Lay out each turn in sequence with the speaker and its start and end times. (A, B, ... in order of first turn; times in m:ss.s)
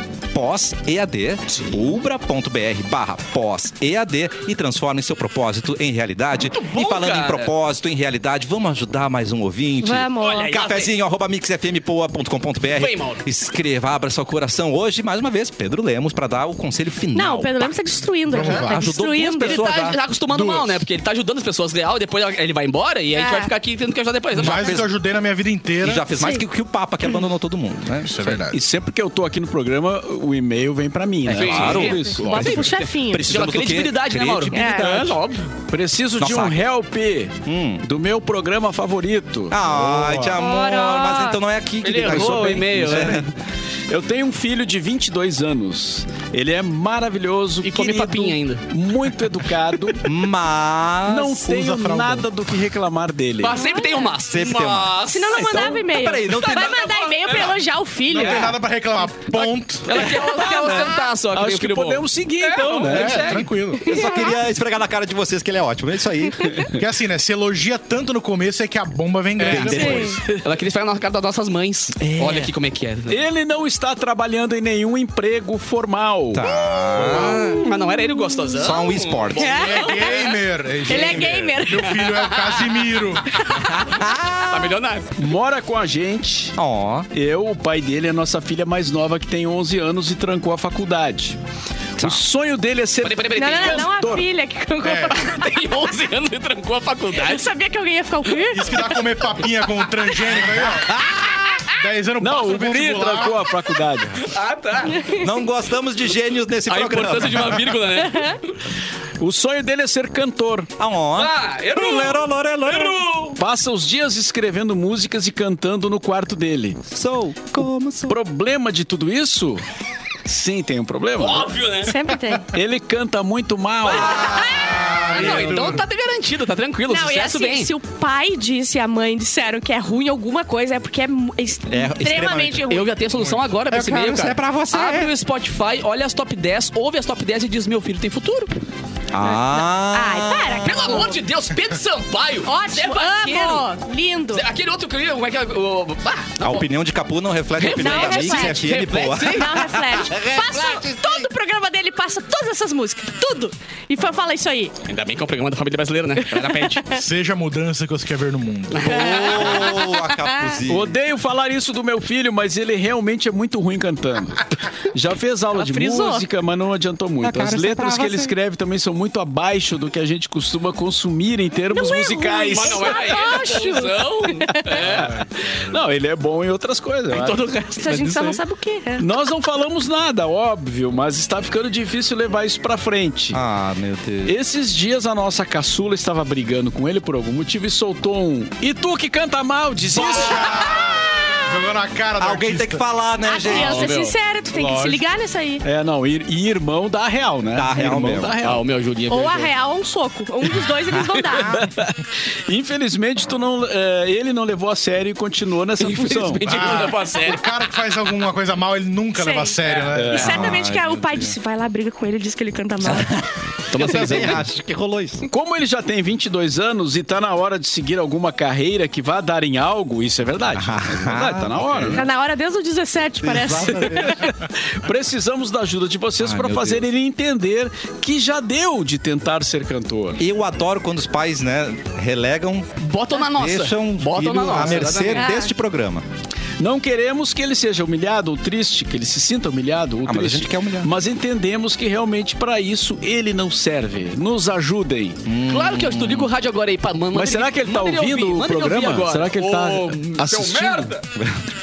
0:00.3-0:17.7 A
0:06.5-0:07.5 B
0:09.8-0:10.5 C
0:10.2-0:10.9 B
0:12.7-0:13.2 B
0:17.1-0:19.6 C
0:18.3-0:18.8 D
0:18.4-0:20.0 A
0:19.4-0:24.9 B
0:20.3-0:20.8 D
0:23.1-0:23.5 C
0:24.4-0:26.0 D
0:24.4-0:24.9 A
0:25.8-0:28.4 A
0:26.2-0:26.4 C
0:28.0-0:28.6 D
0:28.5-0:32.7 E
0:31.2-0:35.5 B
0:31.3-0:35.1 A
0:31.6-0:33.3 C
0:34.5-0:35.1 C
0:35.7-0:39.6 E
0:36.2-0:36.6 A
0:37.4-0:37.8 A
0:39.5-0:43.3 A
0:39.7-0:40.4 D
0:40.4-0:41.4 C
0:41.8-0:43.2 B
0:42.0-0:43.3 E
0:43.9-0:50.1 E
0:47.6-0:48.7 B
0:50.0-0:51.4 A
0:51.1-0:53.6 E
0:51.4-0:52.3 D
0:53.4-0:55.7 B
0:53.5-0:54.1 C
0:54.2-0:57.4 A
0:55.1-0:58.6 C
0:56.3-0:57.6 B
0:58.1-1:00.2 D
0:58.2-0:58.6 B
0:59.8-1:03.5 B
1:00.2-1:03.4 E
1:02.8-1:04.0 D
1:03.8-1:04.4 C
1:03.8-1:06.7 A
1:06.7-1:10.2 D
1:09.4-1:10.2 A
1:09.4-1:13.2 B
1:09.6-1:10.2 C
1:12.0-1:12.5 A
1:13.1-1:16.5 E
1:16.3-1:17.6 A
1:16.5-1:18.7 C
1:16.9-1:17.6 D
1:17.0-1:25.1 B
1:18.6-1:19.6 A
1:19.4-1:20.3 C
1:19.5-1:23.3 D
1:20.8-1:22.1 C
1:23.5-1:24.8 A
1:25.2-1:26.6 E
1:26.6-1:27.1 A
1:27.1-1:31.4 E
1:32.0-1:32.2 A
1:32.0-1:34.3 E
1:33.0-1:33.9 B
1:33.3-1:35.4 C
1:34.8-1:35.2 D
1:35.1-1:37.5 B
1:37.2-1:38.9 C
1:38.5-1:41.0 D
1:40.9-1:41.2 A
1:41.7-1:43.5 D
1:42.2-1:44.3 E
1:44.2-1:45.1 B
1:44.9-1:45.2 C
1:45.2-1:47.7 A
1:46.7-1:48.6 B
1:47.9-1:48.4 C
1:49.2-1:50.7 E
1:50.8-1:53.0 A
1:51.1-1:53.4 B
1:53.4-1:56.8 E
1:56.9-1:58.2 A
1:58.1-1:59.6 E
2:00.3-2:01.5 E
2:01.2-2:01.9 B
2:01.9-2:02.5 C
2:02.5-2:04.4 E
2:03.9-2:05.8 A
2:03.9-2:07.7 B
2:04.6-2:05.8 D
2:06.9-2:13.0 C
2:11.7-2:12.7 A
2:12.7-2:18.6 B
2:13.2-2:13.4 D
2:13.7-2:15.1 A
2:19.1-2:21.0 A
2:19.2-2:21.2 C
2:20.6-2:23.7 B
2:22.4-2:24.4 C
2:24.3-2:26.7 B
2:26.4-2:31.3 A
2:27.6-2:29.6 B
2:27.6-2:34.7 C
2:34.9-2:36.9 B
2:36.2-2:37.0 C
2:36.9-2:39.0 D
2:38.7-2:39.8 B
2:38.8-2:41.0 A
2:38.9-2:40.6 C
2:40.7-2:53.2 E
2:45.5-2:46.3 C
2:47.2-2:48.3 A
2:51.7-2:54.8 C
2:52.3-2:55.1 B
2:54.5-2:57.4 E
2:54.9-2:55.8 D
2:57.1-2:58.4 B
2:57.8-2:59.1 C
2:59.0-3:03.4 E
3:03.3-3:04.4 A
3:04.3-3:10.5 E
3:09.9-3:12.8 D
3:10.0-3:10.9 A
3:12.2-3:13.9 A
3:13.2-3:15.6 C
3:13.5-3:14.1 B
3:14.5-3:15.0 D
3:15.6-3:18.6 E
3:17.5-3:18.4 A
3:18.4-3:19.5 B
3:19.1-3:21.6 C
3:21.3-3:21.7 A
3:21.5-3:26.7 E
3:25.8-3:27.5 B
3:26.4-3:30.4 D
3:29.2-3:33.2 C
3:29.9-3:30.4 E
3:30.2-3:31.3 A
3:32.8-3:35.3 A
3:33.7-3:34.4 B
3:35.3-3:42.1 E
3:40.6-3:42.0 A
3:41.9-3:44.3 C
3:43.2-3:44.3 A
3:43.9-3:50.2 E
3:46.2-3:46.9 A
3:50.2-3:56.0 A
3:52.8-3:55.3 B
3:55.1-3:55.5 C
3:56.6-4:05.2 E
4:00.0-4:00.9 A
4:05.2-4:06.3 A
4:05.5-4:11.0 B
4:07.1-4:10.9 E
4:11.2-4:11.4 A